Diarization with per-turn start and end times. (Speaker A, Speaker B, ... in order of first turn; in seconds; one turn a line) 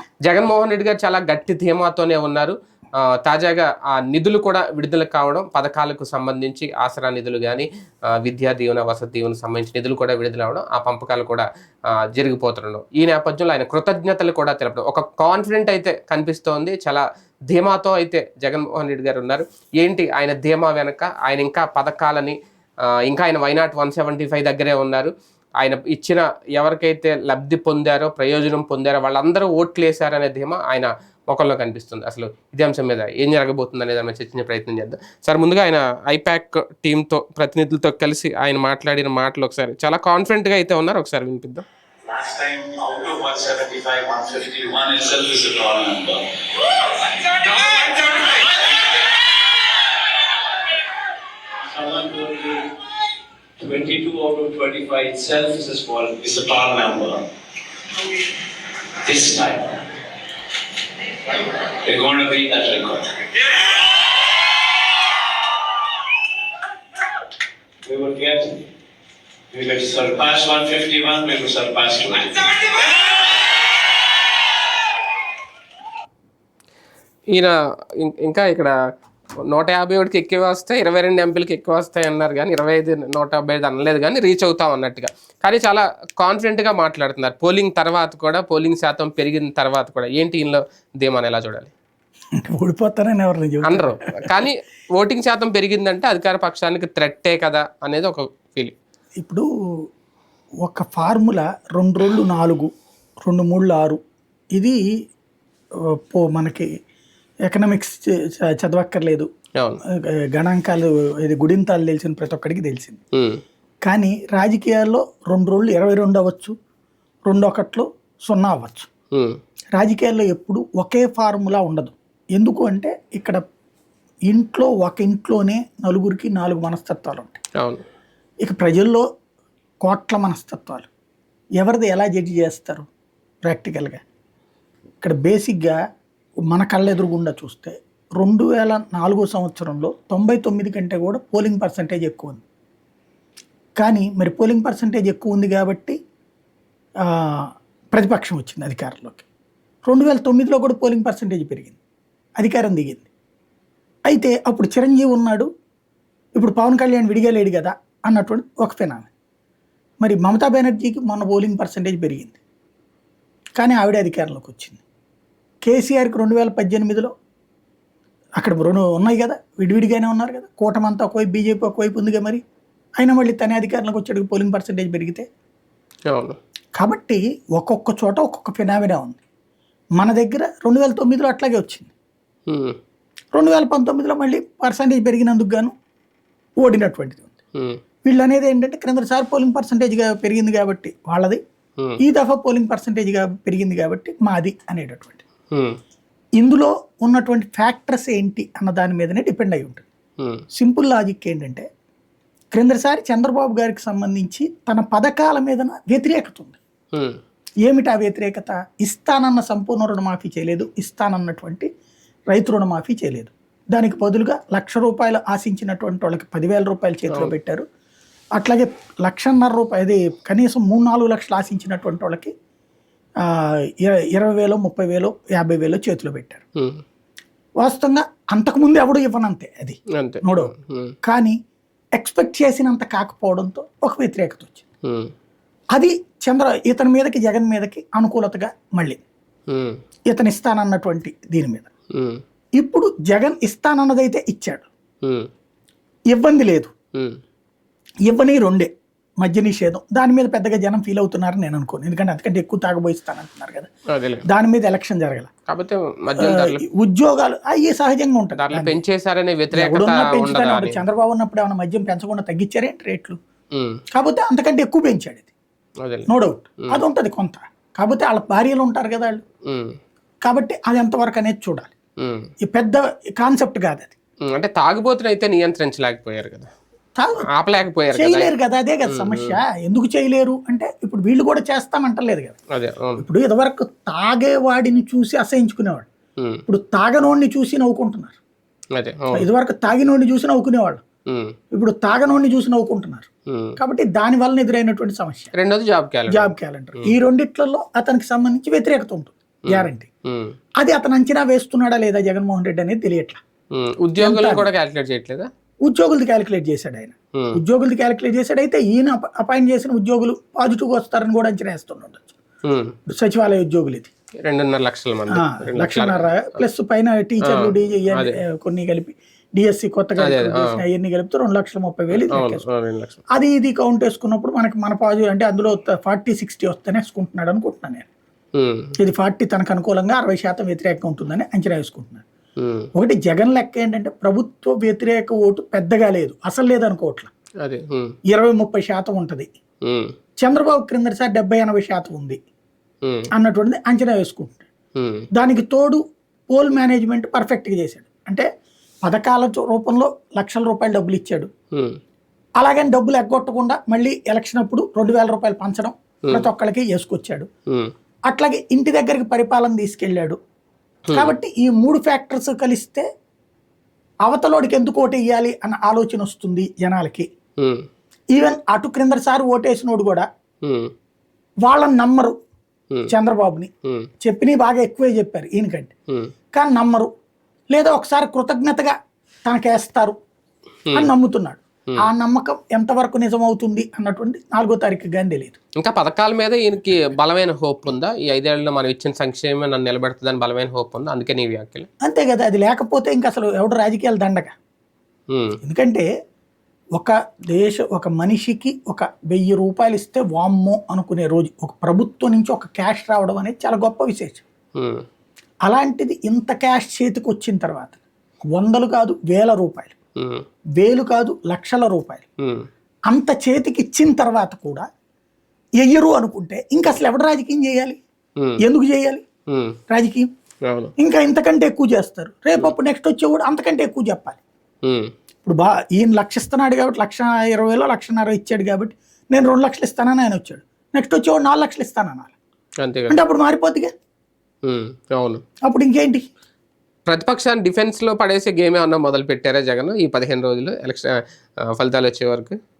Speaker A: 0.2-2.5
Speaker A: 3.2-7.7
Speaker A: 8.2-11.4
Speaker A: 12.1-22.3
Speaker A: 23.0-41.6
Speaker B: 42.1-46.2
Speaker B: 47.3-48.4
Speaker B: 51.7-52.6
Speaker B: 53.6-57.2
Speaker B: 59.0-59.8
Speaker B: 61.3-63.2
Speaker B: 67.8-68.5
Speaker B: 69.5-72.5
Speaker A: 77.3-78.7
Speaker A: 79.5-91.7
Speaker C: 92.4-94.2
Speaker A: 93.7-98.7
Speaker C: 99.2-99.5
Speaker C: 100.6-102.7
Speaker C: 103.2-104.0
Speaker C: 104.5-104.8
Speaker C: 105.9-106.7
Speaker C: 107.5-109.3
Speaker C: 110.3-113.0
Speaker A: 113.2-113.4
Speaker C: 113.8-116.5
Speaker C: 117.3-118.9
Speaker A: 119.1-119.4
Speaker C: 119.7-123.4
Speaker C: 124.3-127.4
Speaker C: 128.4-129.0
Speaker C: 129.8-130.9
Speaker C: 131.6-132.9
Speaker C: 133.4-134.0
Speaker C: 135.0-135.8
Speaker C: 136.5-142.4
Speaker C: 143.8-146.0
Speaker C: 147.1-149.2
Speaker C: 149.8-151.8
Speaker C: 152.4-153.1
Speaker C: 154.1-155.5
Speaker C: 156.3-159.1
Speaker C: 160.0-162.4
Speaker C: 163.6-164.8
Speaker C: 165.6-167.1
Speaker C: 168.4-172.4
Speaker C: 173.0-175.2
Speaker A: 176.1-176.4
Speaker C: 176.8-179.2
Speaker C: 180.0-181.9
Speaker A: 182.5-182.8
Speaker C: 183.3-185.7
Speaker C: 186.6-187.3
Speaker C: 188.0-191.4
Speaker C: 192.0-195.2
Speaker A: 195.5-195.8
Speaker C: 196.4-199.8
Speaker C: 200.5-201.7
Speaker C: 202.5-206.6
Speaker C: 207.6-211.7
Speaker C: 212.3-217.6
Speaker C: 218.4-222.3
Speaker C: 223.3-226.4
Speaker A: 226.6-226.8
Speaker C: 227.6-230.5
Speaker A: 230.0-230.9
Speaker C: 231.0-231.3
Speaker C: 232.0-234.6
Speaker A: 234.8-235.1
Speaker C: 235.7-239.0
Speaker A: 239.5-239.8
Speaker C: 240.1-241.7
Speaker A: 241.9-242.2
Speaker C: 242.6-244.7
Speaker A: 245.0-245.3
Speaker C: 246.1-246.7
Speaker C: 248.1-248.7
Speaker C: 249.2-253.7
Speaker A: 253.9-254.2
Speaker C: 254.3-255.3
Speaker A: 255.5-256.6
Speaker C: 256.2-258.8
Speaker A: 258.4-260.8
Speaker C: 259.5-263.2
Speaker A: 263.5-263.8
Speaker C: 263.9-265.3
Speaker A: 265.8-266.1
Speaker C: 266.1-269.2
Speaker A: 269.5-269.8
Speaker C: 270.2-271.7
Speaker A: 272.0-272.3
Speaker C: 272.4-273.9
Speaker A: 274.3-276.5
Speaker C: 277.0-277.2
Speaker A: 277.3-278.3
Speaker C: 277.9-282.4
Speaker A: 278.9-279.4
Speaker A: 282.6-283.0
Speaker C: 283.0-285.9
Speaker C: 286.5-288.2
Speaker A: 288.8-289.3
Speaker C: 289.1-290.8
Speaker A: 291.1-291.3
Speaker C: 291.5-295.3
Speaker A: 293.3-293.6
Speaker A: 295.3-296.3
Speaker C: 296.1-299.9
Speaker A: 299.5-300.3
Speaker C: 300.6-303.2
Speaker A: 303.5-305.3
Speaker C: 304.0-304.5
Speaker C: 305.6-312.1
Speaker A: 312.4-312.7
Speaker C: 312.9-313.9
Speaker A: 314.2-316.2
Speaker C: 315.1-322.4
Speaker A: 317.3-318.2
Speaker A: 320.0-320.6
Speaker A: 321.9-323.0
Speaker C: 323.1-327.9
Speaker A: 328.3-328.7
Speaker C: 328.8-332.0
Speaker A: 332.4-332.7
Speaker C: 332.8-337.1
Speaker A: 337.4-337.9
Speaker C: 338.1-339.3
Speaker A: 339.6-339.9
Speaker C: 340.2-342.2
Speaker C: 343.1-344.5
Speaker A: 344.8-345.1
Speaker C: 345.1-348.2
Speaker C: 348.8-351.3
Speaker C: 352.4-357.3
Speaker C: 358.1-360.2
Speaker C: 360.9-362.8
Speaker C: 364.0-367.1
Speaker A: 367.4-367.6
Speaker C: 368.1-370.1
Speaker A: 370.4-370.7
Speaker C: 371.4-372.1
Speaker C: 372.9-373.5
Speaker C: 374.0-375.7
Speaker C: 376.3-376.9
Speaker C: 377.5-378.7
Speaker C: 379.2-379.9
Speaker C: 380.7-385.4
Speaker A: 385.6-391.7
Speaker C: 391.8-394.3
Speaker A: 395.1-395.4
Speaker C: 395.4-395.9
Speaker C: 396.8-404.2
Speaker A: 404.6-404.8
Speaker C: 405.4-407.8
Speaker C: 408.3-409.7
Speaker A: 410.0-410.2
Speaker C: 410.6-412.1
Speaker C: 412.9-414.6
Speaker C: 415.6-417.8
Speaker C: 418.4-419.0
Speaker A: 419.3-419.6
Speaker C: 419.7-420.1
Speaker A: 420.5-420.7
Speaker C: 420.8-424.2
Speaker A: 424.6-424.9
Speaker C: 425.2-432.1
Speaker A: 432.6-433.0
Speaker C: 432.9-433.7
Speaker A: 434.4-435.2
Speaker C: 435.4-436.0
Speaker A: 436.9-441.0
Speaker A: 441.5-442.4